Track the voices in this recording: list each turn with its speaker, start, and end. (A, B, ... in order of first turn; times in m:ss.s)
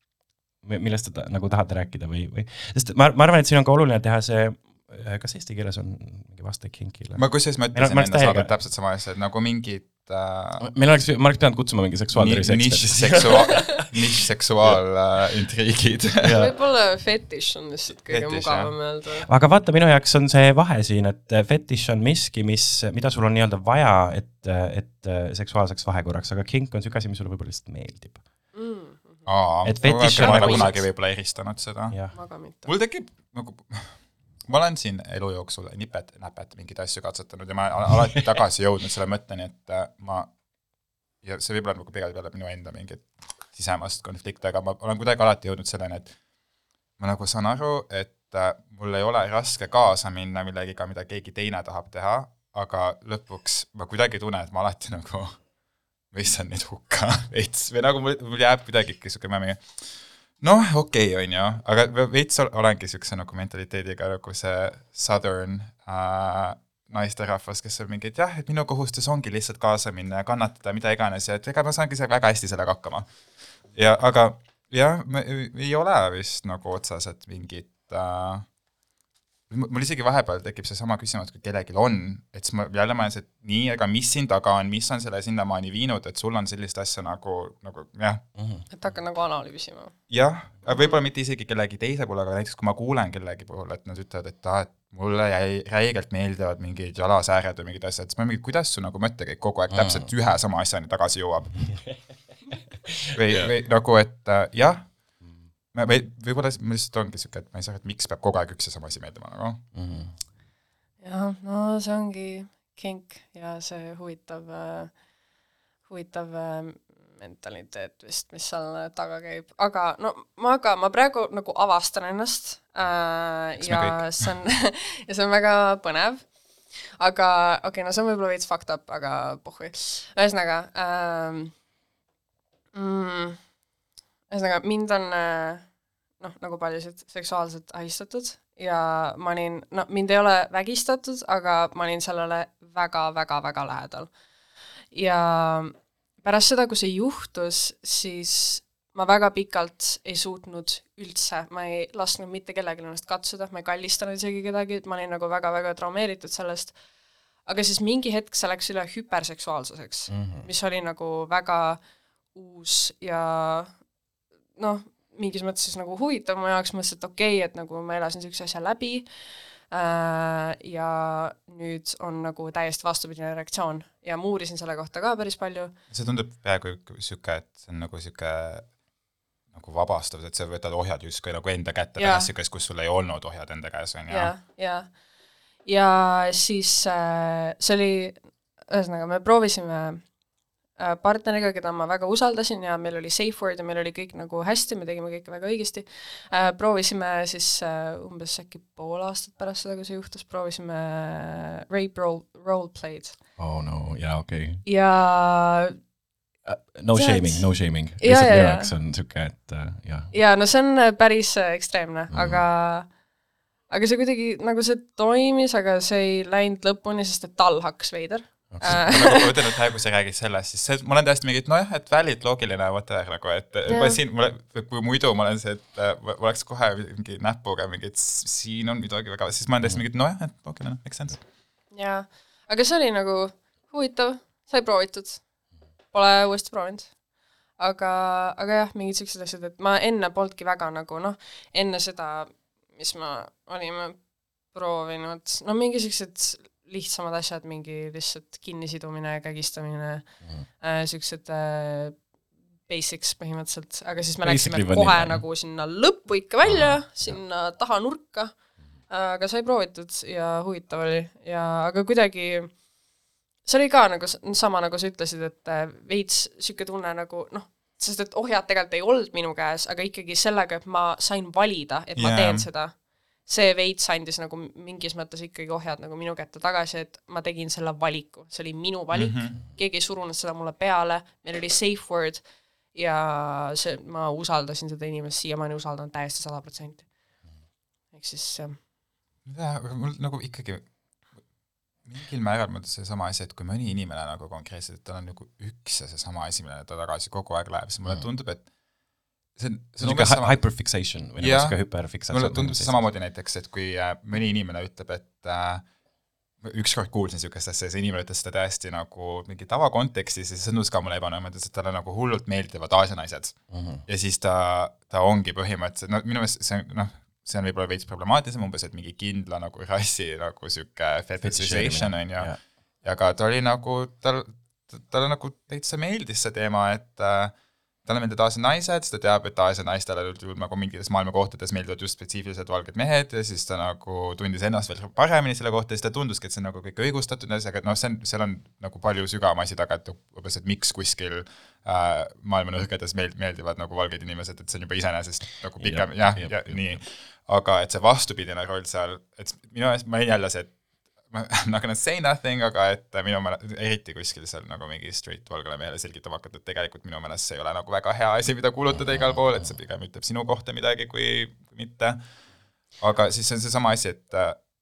0:00.6-0:08.5 A
0:07.2-0:10.6 B
0:10.6-0:13.8 A
0:12.1-0:16.5 B
0:16.2-0:16.5 A
0:16.3-0:19.3 C
0:18.1-0:18.7 B
0:19.2-0:28.2 A
0:28.5-0:29.3 C
0:29.3-0:32.0 B
0:29.6-0:30.9 A
0:29.8-0:30.8 C
0:32.1-0:32.7 C
0:32.6-0:40.3 B
0:41.2-0:46.2 B
0:47.0-0:55.4 B
0:56.1-1:13.1 B
1:13.8-1:18.5 B
1:19.5-1:28.2 B
1:28.4-1:28.6 A
1:28.7-1:29.9 C
1:30.1-1:42.0 B
1:39.7-1:40.1 A
1:43.1-1:45.2 B
1:45.7-1:49.6 B
1:49.7-1:50.2 A
1:51.0-1:54.9 C
1:55.9-2:11.6 C
2:03.6-2:04.3 B
2:12.7-2:13.4 C
2:14.3-2:15.7 C
2:16.2-2:24.1 C
2:24.9-2:36.8 C
2:37.4-2:43.8 C
2:40.1-2:40.5 A
2:44.6-2:55.7 C
2:55.9-2:58.8 B
2:59.5-3:04.3 B
3:02.0-3:02.3 C
3:04.1-3:05.0 C
3:05.6-3:10.1 C
3:10.8-3:23.2 C
3:23.4-3:24.6 A
3:24.6-3:25.8 C
3:26.4-3:30.1 A
3:26.9-3:28.7 C
3:30.1-3:32.9 C
3:32.1-3:32.4 A
3:33.7-3:39.3 C
3:38.7-3:51.2 B
3:43.7-3:44.0 C
3:51.7-3:55.3 C
3:55.9-3:57.0 C
3:57.6-4:12.1 C
4:12.7-4:22.6 C
4:14.2-4:15.2 A
4:16.5-4:17.2 A
4:23.4-4:46.9 C
4:32.0-4:32.5 B
4:38.9-4:39.4 B
4:47.9-4:48.6 C
4:49.3-4:50.7 B
4:51.8-4:58.5 B
4:59.4-5:00.6 B
4:59.8-5:02.8 A
5:01.2-5:05.7 B
5:06.4-6:02.0 B
5:13.5-5:13.8 A
5:21.2-5:22.4 A
5:45.6-5:46.8 A
6:02.8-6:04.4 B